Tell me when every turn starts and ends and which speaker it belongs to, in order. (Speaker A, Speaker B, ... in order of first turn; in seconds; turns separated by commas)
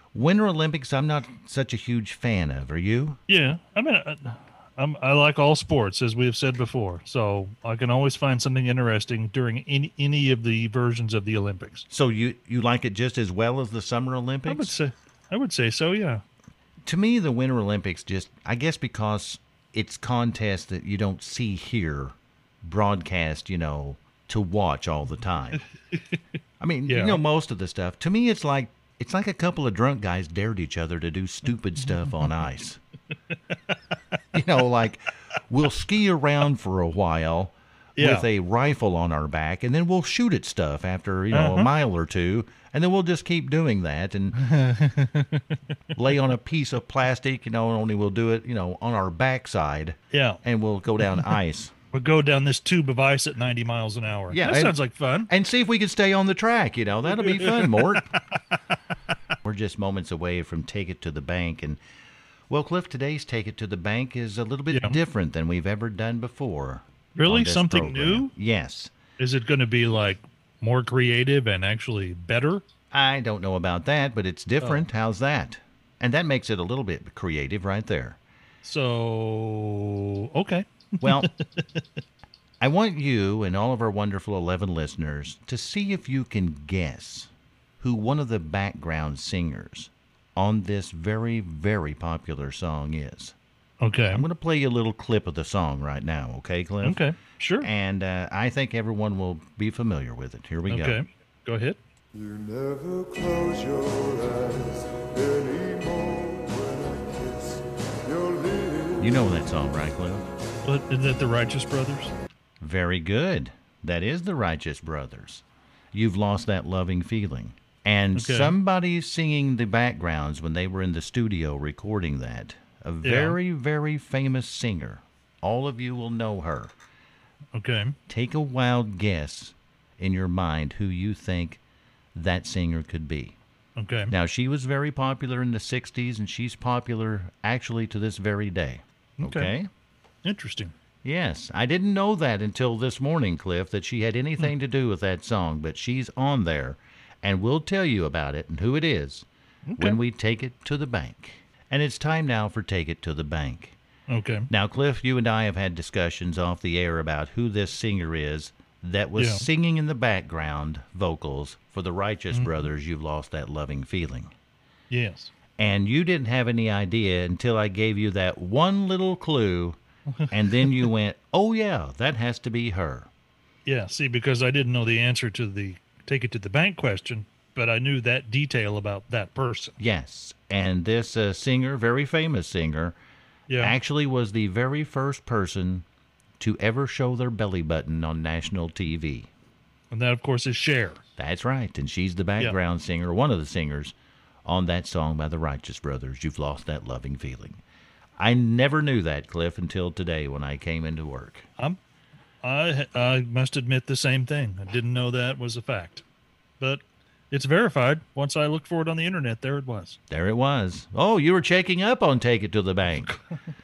Speaker A: 0.1-3.2, Speaker B: 3.3-11.9, Speaker A: 11.9-14.7, Speaker B: 14.5-16.2, Speaker A: 16.9-25.6, Speaker B: 25.9-26.2, Speaker A: 26.6-32.8, Speaker B: 26.9-27.2, Speaker A: 34.3-44.4, Speaker B: 38.0-38.3, Speaker B: 41.3-41.7, Speaker B: 44.4-45.6, Speaker A: 46.0-51.7, Speaker B: 50.1-50.4, Speaker B: 51.9-55.3, Speaker A: 54.3-54.8, Speaker A: 55.3-58.1, Speaker B: 57.1-58.6, Speaker A: 59.4-61.8, Speaker A: 62.5-68.9, Speaker B: 64.7-65.0, Speaker B: 67.2-68.3, Speaker B: 69.2-72.7, Speaker A: 72.9-78.2, Speaker B: 74.6-74.9, Speaker B: 78.6-81.8, Speaker A: 81.0-81.3, Speaker A: 82.6-93.3, Speaker B: 93.8-94.2, Speaker A: 94.1-97.0, Speaker B: 96.8-97.7, Speaker A: 97.6-101.0, Speaker B: 100.7-101.8, Speaker C: 102.4-108.9, Speaker A: 109.0-110.2, Speaker B: 110.6-112.1, Speaker A: 112.6-126.7, Speaker B: 118.1-118.6, Speaker B: 123.0-123.4, Speaker B: 127.5-128.0, Speaker A: 128.1-131.6, Speaker A: 132.2-133.4, Speaker B: 133.8-134.1, Speaker A: 134.1-139.7, Speaker B: 139.2-139.5, Speaker B: 140.2-140.7, Speaker A: 141.0-149.3, Speaker B: 149.7-150.0, Speaker A: 149.8-153.8, Speaker B: 154.1-154.5, Speaker A: 154.5-164.3, Speaker B: 159.2-159.5, Speaker B: 162.3-162.6, Speaker B: 164.9-165.3, Speaker A: 165.6-169.8, Speaker B: 170.2-170.9, Speaker A: 170.3-173.1, Speaker B: 173.7-179.8, Speaker A: 179.8-183.0, Speaker B: 183.5-183.8, Speaker A: 183.6-185.8, Speaker A: 186.4-189.3, Speaker B: 189.9-191.0, Speaker A: 191.2-193.9, Speaker A: 194.5-197.6, Speaker A: 198.2-201.5, Speaker B: 202.4-206.0, Speaker B: 206.6-210.0, Speaker A: 210.1-213.1